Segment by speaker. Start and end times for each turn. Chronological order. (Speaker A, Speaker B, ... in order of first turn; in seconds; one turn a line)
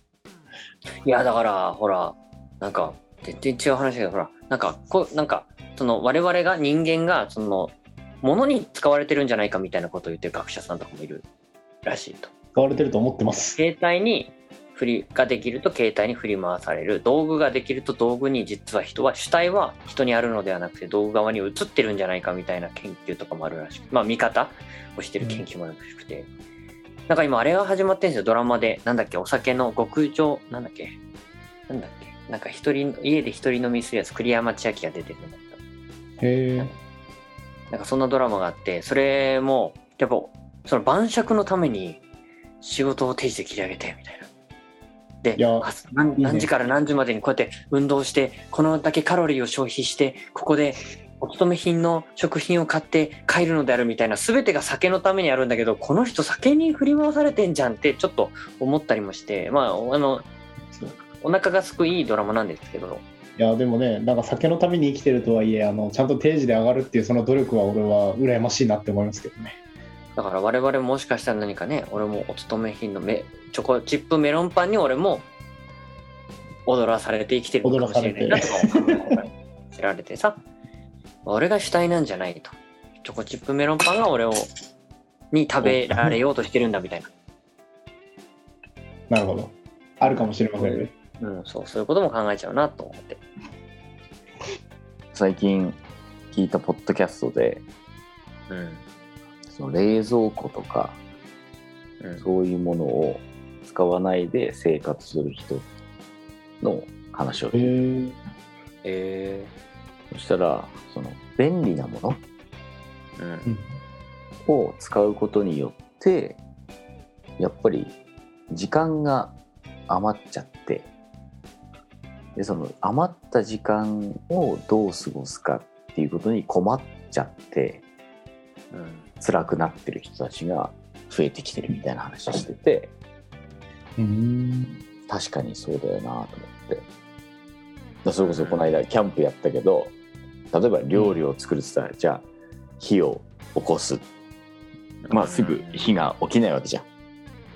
Speaker A: 1.0-11.2
Speaker A: 11.8-12.3
Speaker B: 12.6-13.6
Speaker A: 13.5-26.3
Speaker B: 25.2-25.4
Speaker A: 27.1-31.0
Speaker A: 31.7-35.6
Speaker B: 36.2-36.7
Speaker A: 37.7-42.0
Speaker A: 42.6-44.3
Speaker A: 45.2-60.3
Speaker B: 45.4-46.5
Speaker A: 61.2-63.0
Speaker B: 63.4-69.6
Speaker A: 70.2-75.3
Speaker A: 76.7-80.4
Speaker B: 77.6-79.1
Speaker A: 81.2-84.5
Speaker A: 85.3-87.1
Speaker B: 85.6-86.2
Speaker B: 89.1-90.9
Speaker A: 90.0-93.2
Speaker C: 95.1-95.8
Speaker C: 96.3-97.7
Speaker A: 98.5-98.8
Speaker C: 99.5-101.0
Speaker A: 102.0-102.2
Speaker C: 102.2-105.7
Speaker C: 106.6-107.7
Speaker B: 107.5-108.2
Speaker A: 108.8-109.5
Speaker C: 110.1-112.2
Speaker A: 113.2-113.5
Speaker C: 114.5-116.4
Speaker C: 117.4-118.0
Speaker C: 118.5-119.4
Speaker C: 119.9-120.9
Speaker C: 122.4-127.8
Speaker A: 128.7-129.1
Speaker C: 129.2-132.9
Speaker B: 134.0-134.7
Speaker C: 135.1-136.9
Speaker C: 138.1-139.9
Speaker A: 138.2-138.8
Speaker C: 140.5-142.2
Speaker A: 140.9-141.2
Speaker C: 142.8-144.0
Speaker A: 145.0-145.9
Speaker C: 145.1-146.9